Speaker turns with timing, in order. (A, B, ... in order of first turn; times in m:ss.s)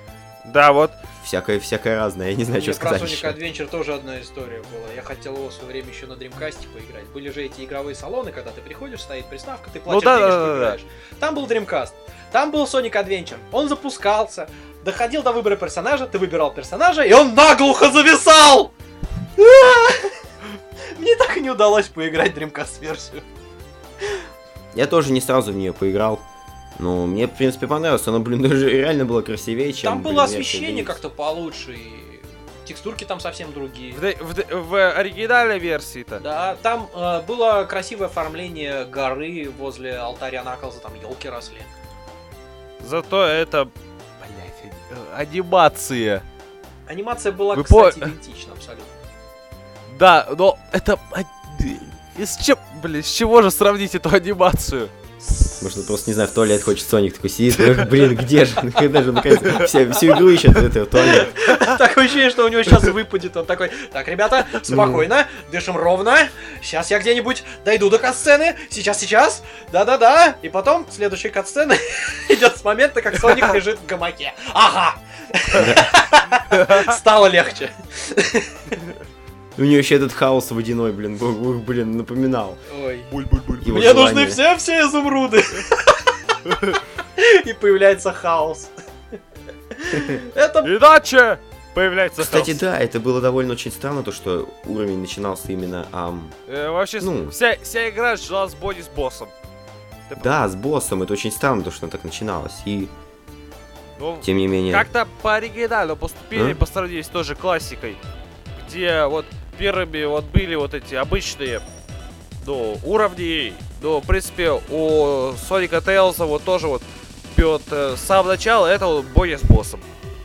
0:00.4-0:01.0 A
0:01.2-0:03.4 B
0:02.5-0:18.7 C
0:09.9-0:10.8 A
0:19.4-0:20.1 C
0:21.0-0:23.2 C
0:24.7-0:26.2 B
0:26.8-0:31.0 B
0:29.8-0:34.0 C
0:33.9-0:36.2 A
0:36.2-0:41.7 C
0:42.8-0:46.2 A
0:46.9-0:48.9 C
0:47.5-0:48.1 A
0:49.9-0:54.9 A
0:55.6-1:01.3 B
1:01.0-1:18.7 C
1:04.6-1:05.0 B
1:15.5-1:15.9 B
1:16.5-1:16.9 A
1:19.6-1:22.6 B
1:22.7-1:23.1 C
1:23.1-1:23.8 A
1:23.6-1:24.4 B
1:23.6-1:26.1 C
1:26.5-1:26.8 A
1:27.2-1:28.7 C
1:29.7-1:30.7 C
1:30.6-1:32.6 A
1:32.2-1:36.3 B
1:36.5-1:39.3 A
1:37.0-1:37.4 B
1:40.1-1:40.4 A
1:40.2-1:42.9 B
1:44.0-1:48.0 A
1:44.2-1:44.9 B
1:46.3-1:46.6 B
1:48.6-1:51.6 A
1:52.4-1:59.8 A